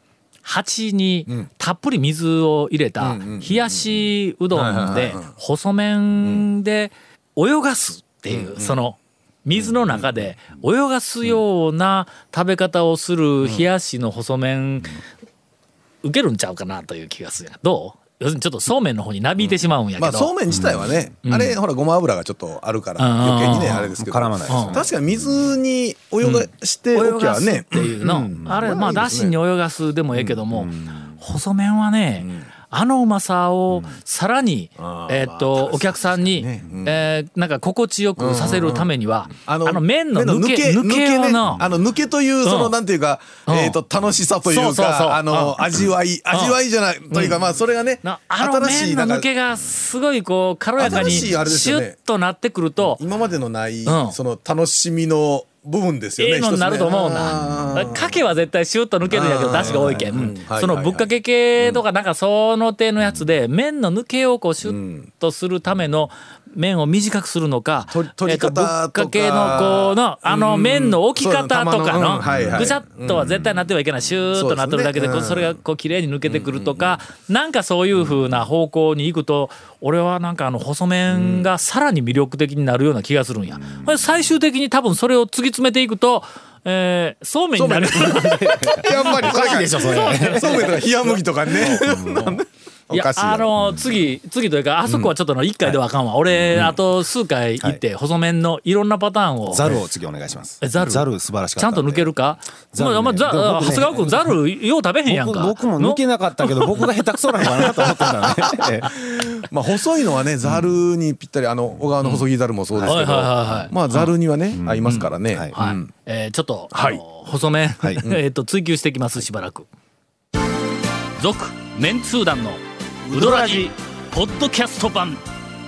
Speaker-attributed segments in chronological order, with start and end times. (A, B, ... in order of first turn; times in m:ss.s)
0:00.4-0:15.0 A
0:03.0-0:03.8 B
0:04.5-0:05.3 B
0:08.3-0:08.8 B
0:16.0-0:20.3 A
0:20.0-0:29.4 B
0:20.5-0:20.8 C
0:21.2-0:21.6 A
0:23.0-0:23.9 A
0:23.6-0:25.5 C
0:24.5-0:24.8 A
0:26.2-0:41.6 A
0:30.5-0:31.0 C
0:34.8-0:37.1 B
0:38.2-0:38.9 B
0:39.4-0:49.3 B
0:42.4-0:42.8 A
0:43.5-0:43.8 A
0:44.5-0:45.7 A
0:46.3-0:46.6 A
0:47.1-0:47.4 A
0:48.0-0:53.0 A
0:50.8-0:52.0 B
0:52.8-0:58.1 B
0:53.9-0:54.2 A
0:56.2-1:30.7 A
0:59.1-1:01.1 B
1:04.6-1:05.1 B
1:07.9-1:13.3 B
1:14.4-1:15.6 B
1:16.3-1:17.0 B
1:21.1-1:21.5 B
1:27.6-1:33.5 B
1:28.6-1:32.4 C
1:32.9-1:39.8 A
1:36.4-1:36.8 C
1:39.5-1:42.1 C
1:40.6-1:46.9 A
1:42.7-1:44.3 C
1:45.1-1:48.9 C
1:47.4-1:48.0 A
1:48.9-1:55.9 B
1:52.9-1:54.1 A
1:54.6-1:55.5 C
1:54.9-1:59.7 A
1:56.7-1:57.0 B
2:01.2-2:05.2 A
2:03.1-2:03.7 C